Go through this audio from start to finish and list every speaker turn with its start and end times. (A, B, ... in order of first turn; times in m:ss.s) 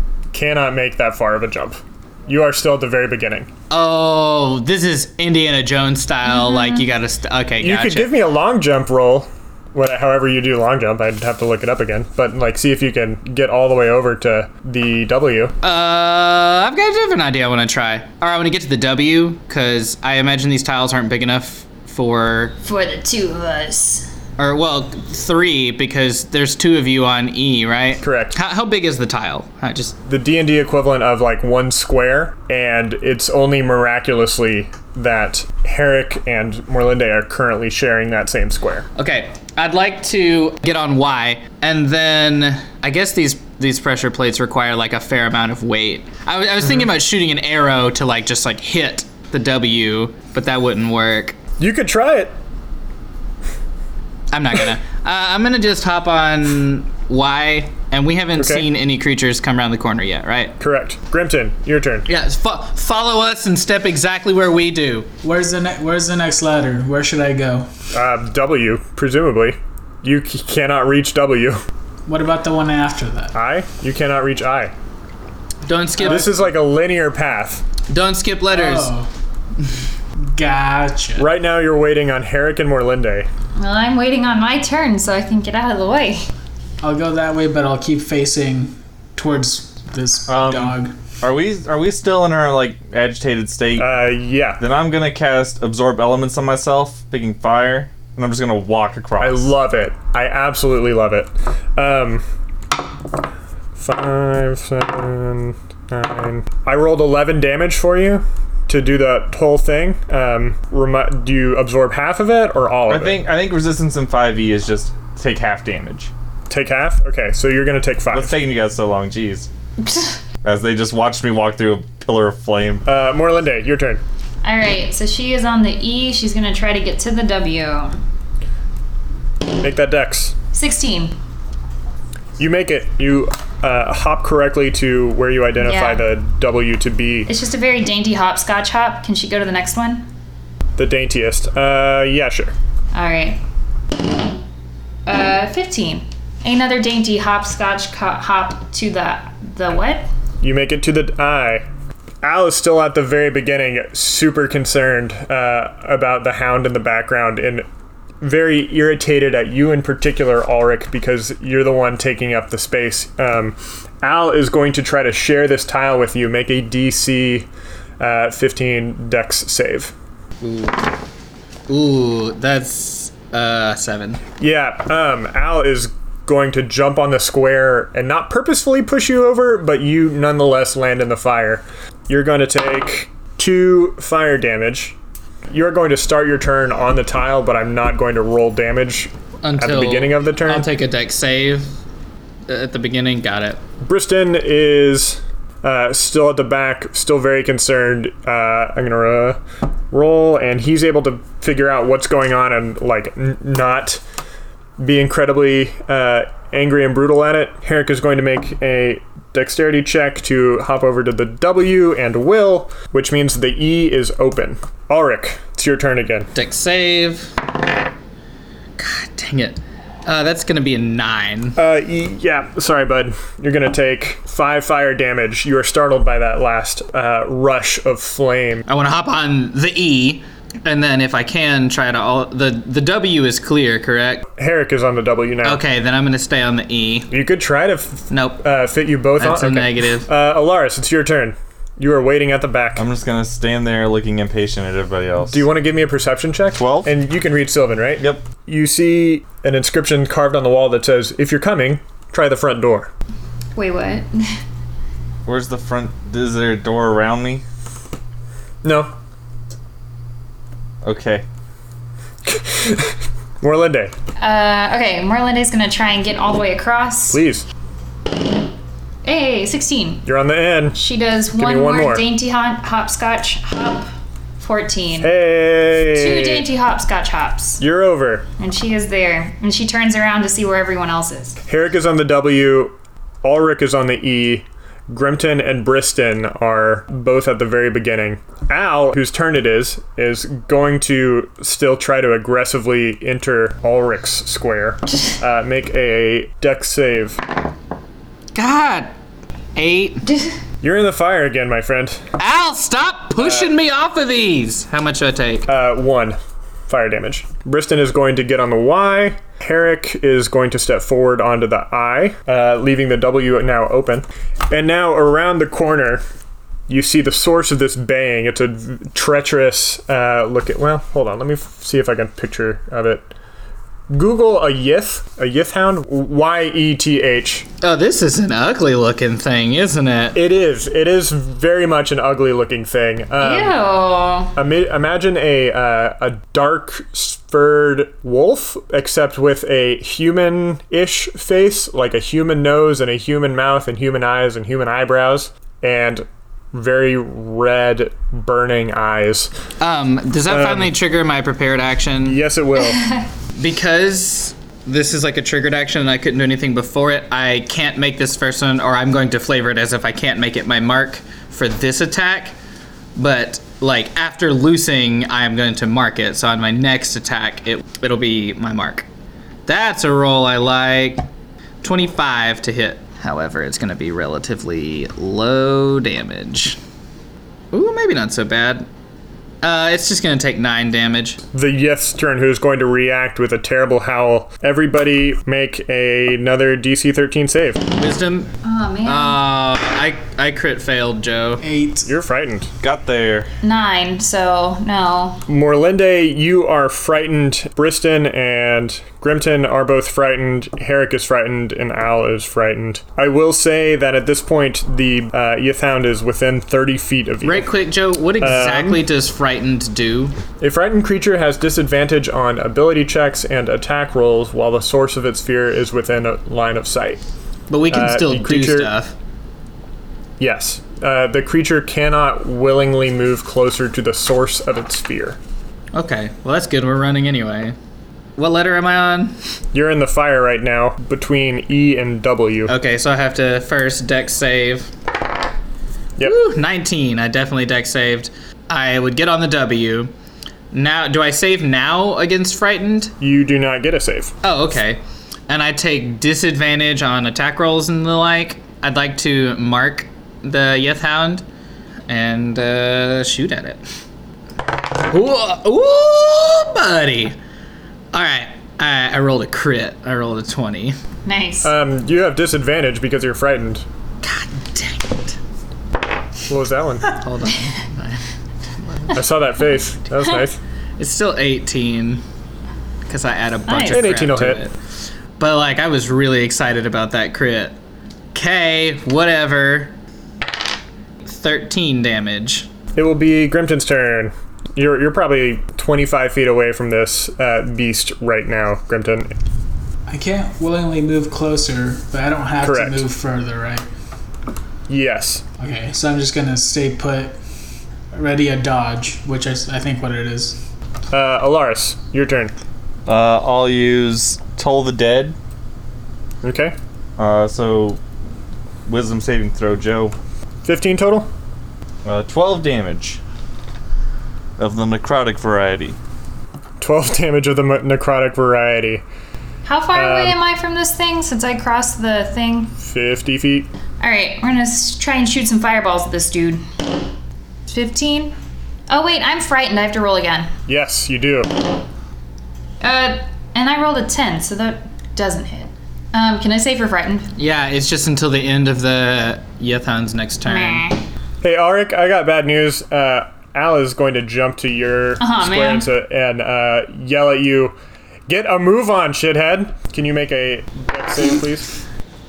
0:00.3-0:03.5 A
0:03.7-0:08.1 B
0:06.3-0:06.8 C
0:07.6-0:15.5 A
0:15.6-0:22.6 B
0:22.6-0:24.1 C
0:24.4-0:30.0 B
0:28.0-0:28.4 A
0:30.0-0:38.9 A
0:39.0-0:51.4 B
0:51.6-0:52.3 A
0:54.3-1:00.6 B
0:58.4-0:58.6 A
1:00.6-1:02.1 A
1:02.1-1:05.1 B
1:05.2-1:07.7 D
1:07.9-1:11.6 A
1:12.0-1:13.3 D
1:13.3-1:14.7 A
1:15.6-1:16.4 B
1:16.0-1:17.6 A
1:17.9-1:18.9 B
1:18.5-1:19.1 D
1:20.3-1:21.3 D
1:21.2-1:23.3 A
1:23.6-1:26.2 C
1:26.8-1:30.9 D
1:30.3-1:33.9 E
1:33.8-1:34.6 A
1:34.6-1:39.5 E
1:39.2-1:42.2 A
1:43.8-1:53.2 A
1:52.9-1:56.1 E
1:56.5-1:58.3 A
1:58.1-1:59.5 E
2:00.4-2:02.8 E
2:02.8-2:04.0 A
2:04.4-2:08.0 C
2:09.6-2:10.3 A
2:10.5-2:11.2 C
2:12.4-2:17.3 A
2:15.6-2:16.1 C
2:17.3-2:20.1 C
2:20.8-2:22.5 A
2:22.9-2:23.4 C
2:25.0-2:30.1 C
2:30.4-2:31.6 A
2:32.2-2:37.6 A
2:38.2-2:47.5 A
2:48.0-2:49.9 A
2:50.4-2:50.9 B
2:51.7-2:54.2 B
2:54.4-3:05.0 A
3:05.5-3:10.7 A
3:09.4-3:11.7 B
3:12.5-3:13.6 B
3:13.8-3:24.0 A
3:24.8-3:36.3 A
3:36.3-3:37.3 B
3:38.8-3:41.6 B
3:41.6-3:48.6 A
3:48.7-3:54.2 B
3:54.4-3:55.6 A
3:55.4-3:57.1 B
3:57.1-4:02.8 A
3:58.1-3:58.4 B
3:59.2-4:00.1 B
4:02.8-4:05.4 E
4:05.3-4:12.9 A
4:06.6-4:06.9 E
4:08.0-4:08.2 E
4:13.5-4:14.3 C
4:15.2-4:17.4 E
4:18.6-4:18.9 A
4:20.8-4:21.2 E
4:22.2-4:23.9 A
4:24.2-4:27.2 C
4:27.1-4:27.4 A
4:29.0-4:30.0 C
4:30.0-4:30.8 A
4:30.7-4:35.1 C
4:31.3-4:32.0 A
4:35.0-4:36.5 A
4:35.9-4:37.6 C
4:37.6-4:38.3 A
4:38.4-4:41.4 C
4:41.5-4:57.2 A
4:58.3-4:58.9 B
4:59.6-5:00.0 B
5:00.6-5:02.0 A
5:02.2-5:05.5 B
5:03.2-5:03.5 A
5:05.5-5:16.0 A
5:16.7-5:23.1 A
5:23.9-5:27.4 A
5:27.6-5:30.2 B
5:30.1-5:33.6 A
5:33.2-5:34.4 C
5:34.4-5:49.3 A
5:49.6-5:52.2 B
5:50.3-5:50.7 A
5:52.0-5:52.8 A
5:52.6-5:53.0 C
5:53.3-6:02.3 B
6:02.9-6:08.9 B
6:09.5-6:11.1 B
6:11.6-6:16.6 B
6:17.5-6:18.7 B
6:19.4-6:21.2 B
6:21.3-6:27.6 A
6:27.7-6:28.3 B
6:28.4-6:29.2 C
6:28.8-6:31.4 B
6:31.4-6:31.9 D
6:31.8-6:32.5 A
6:32.6-6:33.3 E
6:33.4-6:35.2 C
6:35.3-6:47.5 A
6:47.2-6:50.2 B
6:48.2-6:48.8 A
6:50.4-6:57.0 A
6:57.5-6:58.9 B
6:57.7-6:58.7 A
7:00.2-7:05.2 A
7:05.7-7:07.5 B
7:08.2-7:09.2 B
7:09.5-7:12.5 A
7:12.5-7:14.7 B
7:16.0-7:19.9 B
7:20.5-7:22.9 B
7:23.0-7:24.1 A
7:24.2-7:31.2 B
7:31.9-7:33.6 B
7:34.8-7:37.2 B
7:37.9-7:40.8 B
7:41.0-7:41.5 C
7:41.4-7:43.6 A
7:44.0-7:45.2 B
7:46.3-7:47.0 A
7:46.9-7:48.0 B
7:48.6-7:49.0 B
7:48.9-7:50.4 A
7:50.8-7:52.0 B
7:52.8-7:54.6 B
7:53.5-7:53.9 C
7:53.6-7:54.4 A
7:55.2-7:57.6 B
7:58.1-7:59.8 B
8:01.0-8:02.5 B
8:02.8-8:09.1 A
8:09.9-8:13.7 D
8:12.4-8:12.8 A
8:14.7-8:15.2 A
8:15.4-8:17.2 D
8:17.9-8:20.4 D
8:20.9-8:22.3 A
8:22.8-8:25.2 E
8:26.2-8:26.5 A
8:27.0-8:27.8 E
8:28.6-8:29.9 E
8:30.4-8:31.1 A
8:31.8-8:33.0 E
8:34.4-8:35.8 E
8:36.6-8:38.8 A
8:39.4-8:42.6 C
8:39.7-8:40.2 A
8:42.6-8:43.5 A
8:43.8-8:46.4 C
8:47.5-8:48.1 C
8:48.7-8:50.3 C
8:50.5-8:51.4 A
8:52.6-8:57.1 C
8:57.2-9:00.6 B
9:00.2-9:00.8 C
9:01.2-9:07.6 A
9:05.0-9:05.7 C
9:08.1-9:11.6 A